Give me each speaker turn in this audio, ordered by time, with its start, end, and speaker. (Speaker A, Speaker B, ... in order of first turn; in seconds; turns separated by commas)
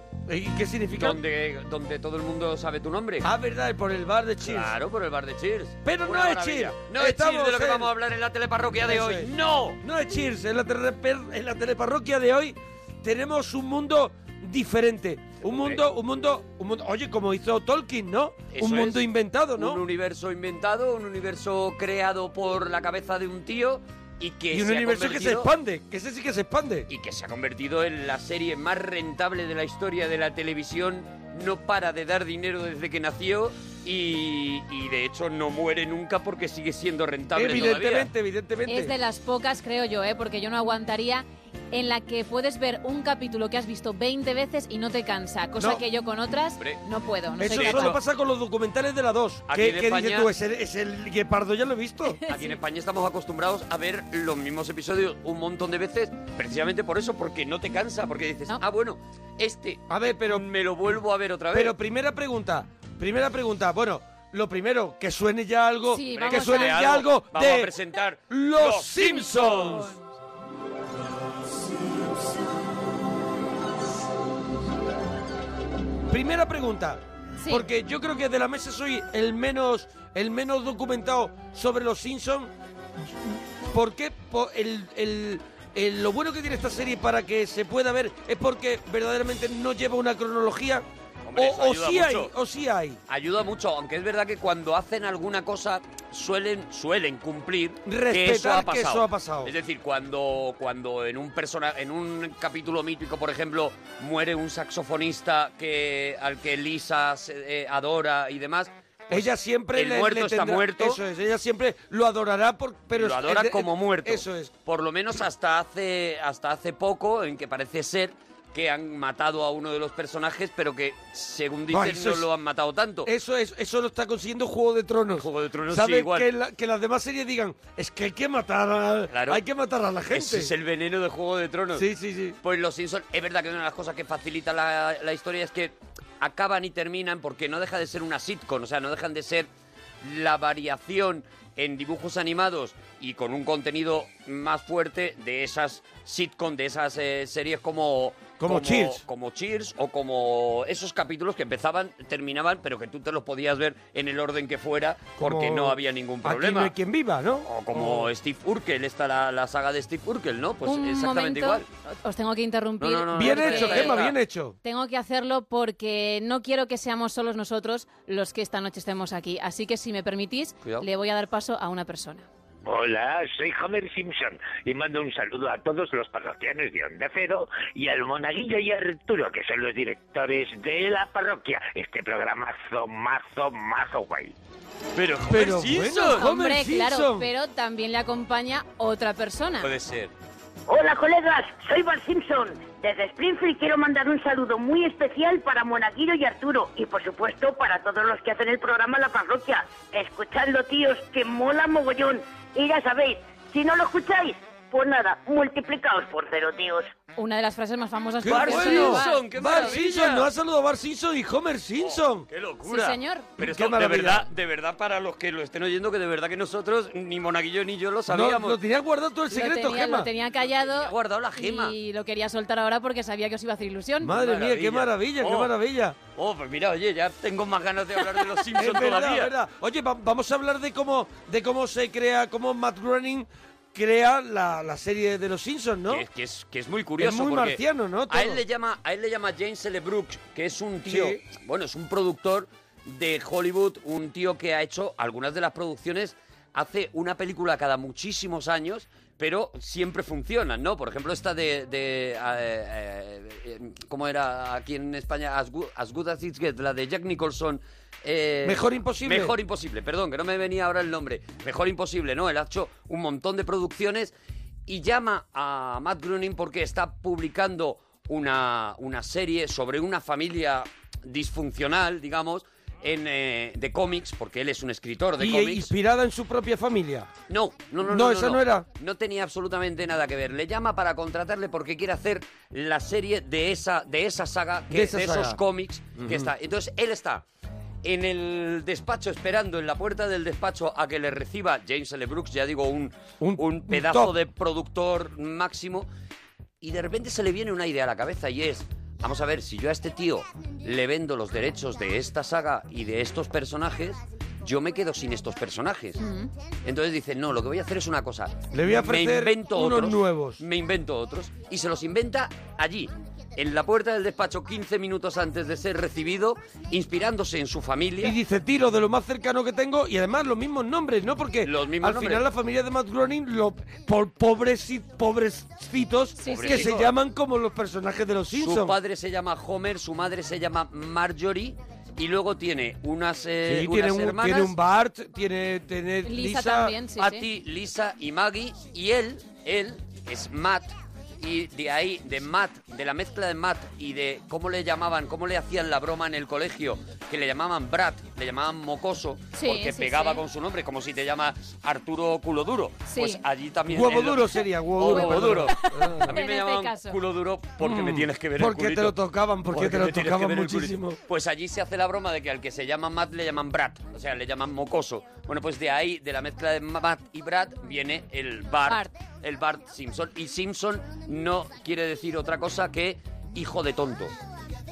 Speaker A: 0.3-1.2, Speaker B: 0.9-3.2, Speaker A: 3.2-4.7, Speaker B: 4.4-9.8, Speaker A: 5.8-7.9, Speaker A: 8.8-9.3, Speaker A: 9.8-19.8, Speaker B: 15.4-15.8, Speaker B: 18.5-19.0, Speaker B: 19.6-25.5, Speaker A: 24.5-26.9, Speaker B: 26.9-38.1, Speaker A: 37.3-38.9, Speaker C: 38.7-48.0, Speaker A: 47.4-52.2, Speaker B: 47.4-48.0, Speaker B: 49.5-50.3, Speaker C: 52.2-52.5, Speaker B: 52.3-61.7, Speaker A: 59.9-60.4, Speaker A: 61.5-67.7, Speaker C: 65.9-66.8, Speaker B: 66.1-69.4, Speaker A: 68.3-69.9, Speaker C: 69.2-69.9, Speaker A: 76.1-82.5, Speaker C: 77.4-77.7, Speaker A: 83.7-90.8, Speaker B: 91.2-92.3, Speaker A: 91.3-93.0, Speaker B: 93.1-111.0, Speaker A: 97.8-99.5, Speaker A: 109.1-114.5, Speaker B: 112.9-123.1, Speaker A: 121.7-122.2, Speaker A: 123.0-130.5, Speaker B: 125.2-126.3, Speaker B: 129.1-129.4, Speaker B: 130.1-131.8, Speaker A: 131.7-132.4, Speaker B: 132.4-139.5, Speaker B: 140.0-156.7, Speaker A: 148.4-149.0, Speaker A: 155.2-158.1, Speaker B: 157.4-161.6, Speaker C: 160.6-164.0, Speaker B: 162.8-164.2, Speaker A: 163.1-164.6, Speaker C: 164.6-172.3, Speaker D: 172.7-184.3, Speaker B: 184.9-186.2, Speaker A: 185.3-187.3, Speaker C: 186.0-189.7, Speaker B: 189.6-190.1, Speaker E: 190.7-206.9, Speaker C: 207.2-209.8, Speaker A: 208.2-212.3, Speaker B: 208.3-210.3, Speaker B: 211.8-218.6, Speaker C: 212.6-213.3, Speaker A: 213.4-214.3, Speaker A: 218.1-220.1, Speaker C: 219.3-224.2, Speaker B: 220.6-221.7, Speaker A: 224.0-226.0, Speaker B: 224.1-225.5, Speaker B: 226.1-229.3, Speaker A: 228.6-236.0, Speaker B: 235.9-264.1, Speaker A: 237.0-238.4, Speaker A: 240.8-241.2, Speaker A: 258.4-259.4, Speaker B: 264.7-275.6, Speaker A: 275.2-277.1, Speaker B: 277.3-287.2, Speaker A: 277.8-278.7, Speaker A: 284.7-285.4, Speaker A: 286.0-286.3, Speaker B: 287.8-295.9, Speaker A: 293.2-294.1, Speaker B: 296.6-306.0, Speaker C: 306.0-306.3, Speaker B: 306.6-318.1, Speaker A: 308.5-310.4, Speaker A: 318.0-328.7, Speaker B: 321.4-322.2, Speaker C: 326.2-326.7, Speaker B: 326.3-326.9, Speaker B: 328.3-334.5, Speaker A: 333.4-336.8, Speaker C: 336.0-337.2, Speaker B: 336.9-358.9, Speaker C: 349.3-350.2, Speaker C: 352.9-353.2, Speaker A: 353.7-356.1, Speaker C: 354.9-357.0, Speaker A: 357.6-361.0, Speaker B: 359.5-374.1, Speaker C: 368.7-368.9